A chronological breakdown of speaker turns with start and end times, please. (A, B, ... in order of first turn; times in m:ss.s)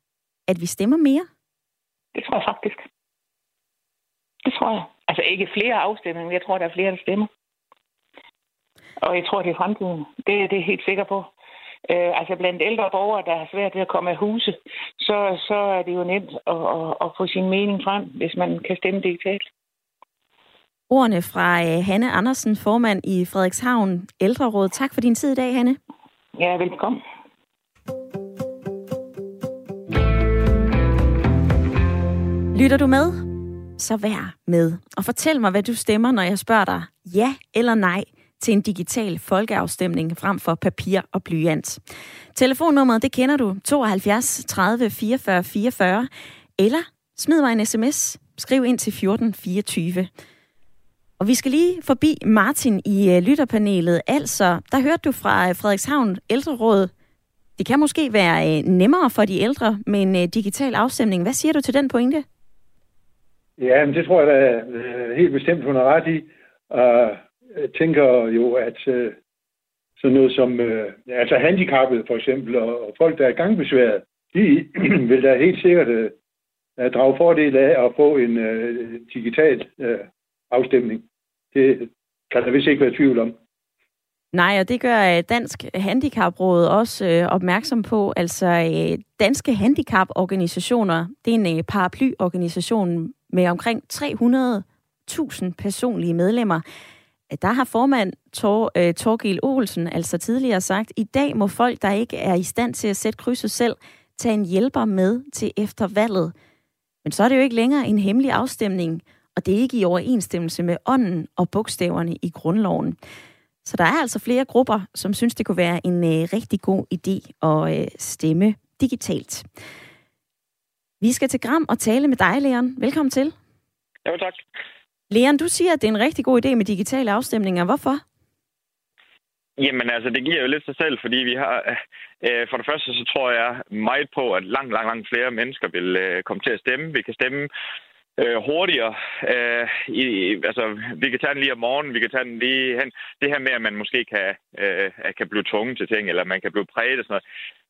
0:00.5-0:01.3 A
0:02.2-0:02.9 B
0:04.4-0:07.3 B
0:09.0-0:11.3 B
0:11.9-0:19.5 B
0:20.9-0:25.8 A
0:26.4-0:27.0 B
0:32.5-0:33.3 A
0:33.8-0:41.8 A
0:42.4-0:50.1 A
0:51.2-0:56.9 A
0:57.6-1:02.2 A
1:03.6-1:09.2 C
1:10.0-1:16.1 C
1:16.8-1:23.3 C
1:24.3-1:36.6 A
1:37.3-1:46.3 A
1:47.0-1:53.0 A
1:53.6-1:59.4 A
2:01.0-2:03.4 A
2:04.0-2:04.4 D
2:05.1-2:08.0 A
2:09.6-2:17.5 D
2:18.2-2:27.2 D